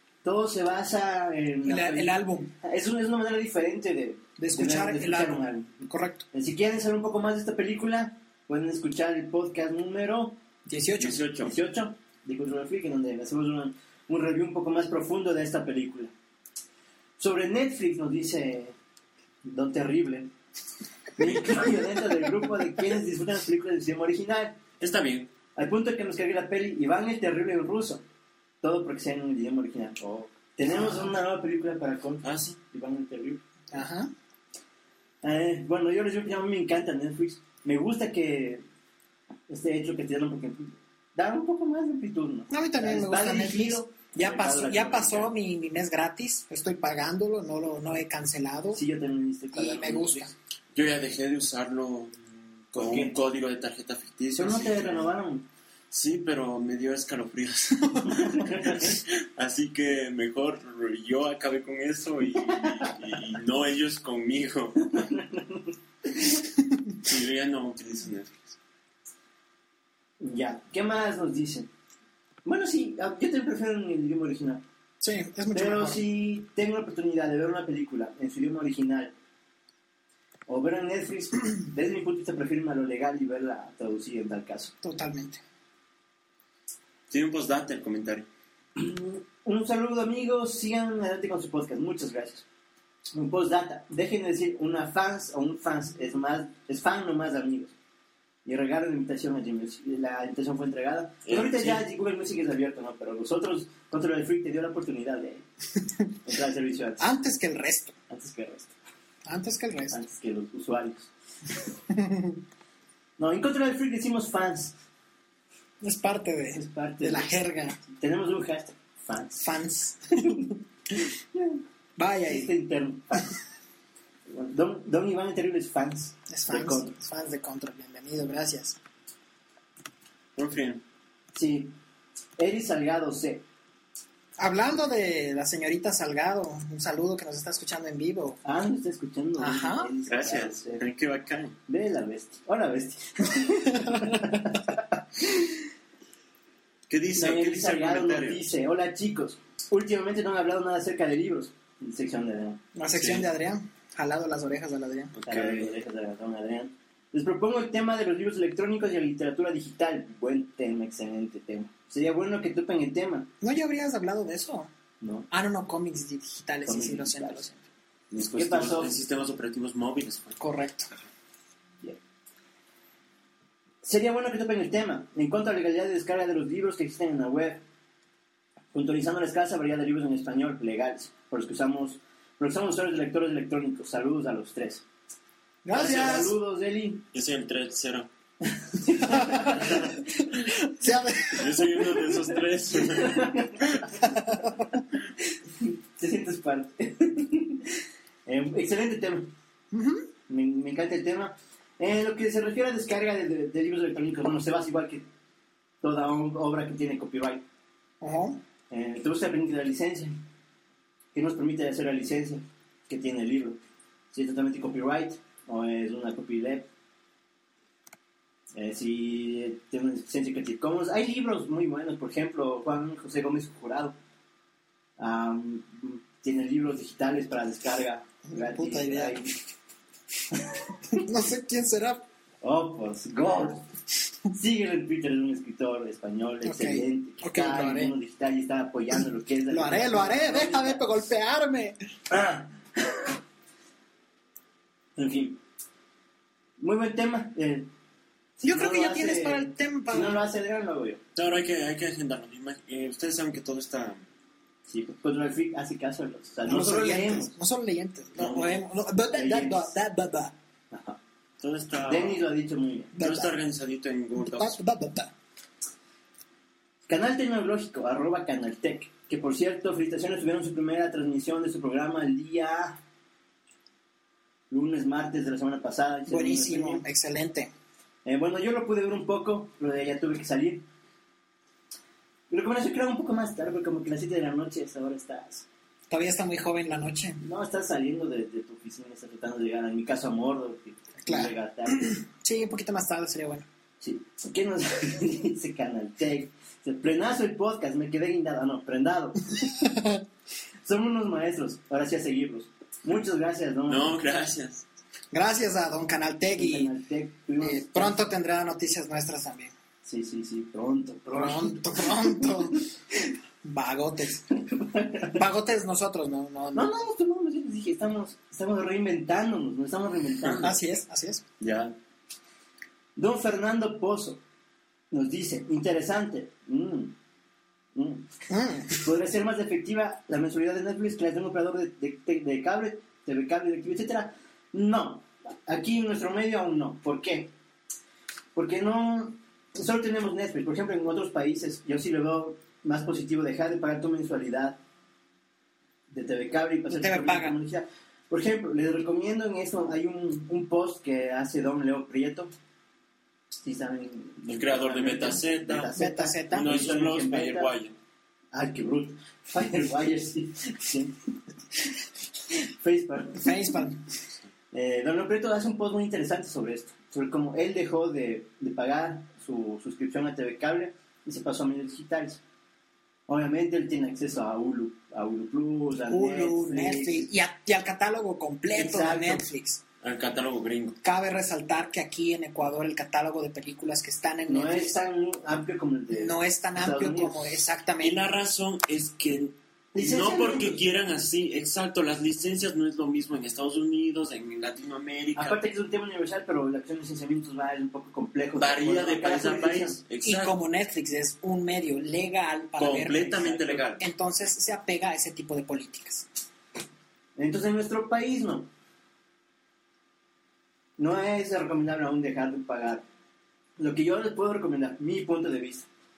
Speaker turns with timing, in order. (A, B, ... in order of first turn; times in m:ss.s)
0:00.2-0:10.4 A
0:01.6-0:02.5 B
0:04.4-0:06.2 B
0:10.6-0:11.2 B
0:11.0-0:11.5 C
0:11.4-0:16.1 A
0:17.2-0:18.7 A
0:19.4-0:20.3 A
0:21.2-0:24.6 A
0:24.8-0:25.3 C
0:25.5-0:28.0 A
0:28.6-0:33.4 A
0:30.7-0:31.1 B
0:32.2-0:32.6 C
0:33.7-0:34.1 B
0:35.2-0:38.6 A
0:39.5-0:45.3 A
0:42.5-0:48.8 B
0:48.7-0:50.3 A
0:49.5-0:50.3 B
0:50.7-0:55.1 C
0:52.7-0:53.2 A
0:54.4-0:55.5 A
0:55.9-1:04.9 C
0:58.1-0:59.0 A
1:02.5-1:03.0 A
1:04.8-1:06.3 A
1:07.0-1:08.6 C
1:10.2-1:11.7 A
1:12.4-1:14.6 A
1:15.0-1:16.0 B
1:15.5-1:19.1 A
1:20.5-1:24.7 A
1:24.8-1:25.4 B
1:27.1-1:28.2 C
1:28.7-1:32.4 A
1:33.1-1:37.7 A
1:38.4-1:45.4 A
1:41.2-1:41.8 C
1:46.2-1:47.1 A
1:47.0-1:47.9 B
1:48.1-1:48.7 A
1:49.2-1:50.0 B
1:49.9-1:51.1 A
1:51.9-1:52.4 B
1:53.2-1:54.7 A
1:55.8-1:57.8 B
1:56.5-1:57.3 A
1:57.9-1:59.4 A
1:59.4-2:00.4 B
2:00.1-2:00.5 A
2:01.3-2:01.6 A
2:02.0-2:02.5 B
2:02.2-2:03.3 A
2:04.3-2:06.9 A
2:06.3-2:08.8 B
2:10.4-2:10.8 C
2:11.3-2:11.8 A
2:12.4-2:13.4 A
2:14.4-2:18.4 B
2:18.4-2:20.8 A
2:19.4-2:19.9 B
2:20.1-2:21.6 C
2:21.7-2:25.6 A
2:23.8-2:24.3 B
2:26.9-2:28.4 C
2:27.1-2:32.6 A
2:32.7-2:35.1 B
2:32.9-2:33.3 C
2:35.1-2:35.7 C
2:35.2-2:43.3 A
2:43.4-2:44.7 B
2:45.0-2:45.3 A
2:45.3-2:47.6 B
2:46.6-2:47.4 A
2:48.1-2:50.4 C
2:48.2-2:49.0 A
2:50.4-2:50.9 B
2:53.8-2:57.6 A
2:58.7-3:04.8 A
3:05.6-3:06.3 B
3:05.7-3:07.0 A
3:07.1-3:08.1 C
3:08.4-3:09.9 A
3:09.0-3:11.6 B
3:11.3-3:13.8 C
3:12.7-3:13.9 A
3:14.0-3:14.6 B
3:15.5-3:17.7 A
3:18.2-3:19.3 A
3:19.7-3:20.0 B
3:20.3-3:25.0 A
3:25.8-3:27.4 A
3:28.0-3:28.4 B
3:28.7-3:30.1 A
3:31.1-3:33.6 A
3:34.1-3:36.7 A
3:38.5-3:44.0 A
3:45.0-3:49.4 A
3:48.3-3:49.2 B
3:50.9-3:52.0 B
3:52.4-3:53.6 A
3:54.3-4:00.9 A
3:56.4-3:57.9 B
3:59.5-4:01.8 B
4:02.1-4:03.1 A
4:05.0-4:05.4 A
4:06.6-4:07.7 A
4:08.4-4:11.0 A
4:08.4-4:10.2 B
4:11.1-4:14.0 C
4:14.7-4:17.3 A
4:16.4-4:20.3 B
4:18.2-4:18.6 C
4:19.1-4:19.7 A
4:20.7-4:21.0 A
4:21.4-4:22.2 C
4:21.8-4:22.9 A
4:23.0-4:23.3 B
4:23.0-4:24.6 C
4:24.2-4:25.1 B
4:26.9-4:32.8 A
4:34.5-4:36.8 A
4:36.1-4:37.5 B
4:38.0-4:40.6 A
4:42.3-4:45.4 A
4:45.9-4:47.2 B
4:47.2-4:51.9 A
4:51.0-4:53.4 B
4:53.8-4:59.2 A
4:59.6-5:00.0 B
5:00.6-5:04.0 A
5:03.7-5:04.6 C
5:05.1-5:06.7 B
5:06.3-5:08.1 A
5:07.4-5:09.5 B
5:09.8-5:12.5 A
5:11.1-5:12.6 B
5:13.4-5:14.3 B
5:14.4-5:15.2 A
5:15.1-5:16.7 B
5:16.5-5:20.6 A
5:20.2-5:20.5 C
5:20.4-5:21.2 B
5:21.4-5:21.7 C
5:23.0-5:24.2 A
5:24.9-5:26.9 A
5:27.7-5:28.1 A
5:28.3-5:28.8 B
5:28.7-5:37.3 A
5:38.3-5:44.6 A
5:45.9-5:52.3 A
5:46.7-5:47.4 B
5:53.4-5:57.5 A
5:54.3-5:55.7 C
5:55.7-5:56.5 B
5:56.3-5:57.7 C
5:58.3-6:01.1 A
6:02.3-6:03.3 A
6:03.2-6:03.8 B
6:04.5-6:12.2 A
6:13.1-6:17.1 A
6:15.9-6:19.6 B
6:18.5-6:19.3 A
6:19.8-6:20.8 C
6:20.8-6:24.8 B
6:24.3-6:27.3 A
6:25.9-6:28.0 B
6:27.8-6:35.4 C
6:29.7-6:30.6 A
6:35.1-6:39.8 A
6:38.4-6:40.4 C
6:40.0-6:46.1 B
6:42.6-6:43.8 C
6:43.0-6:43.6 A
6:47.2-6:48.5 A
6:50.8-6:52.8 A
6:53.6-6:55.7 A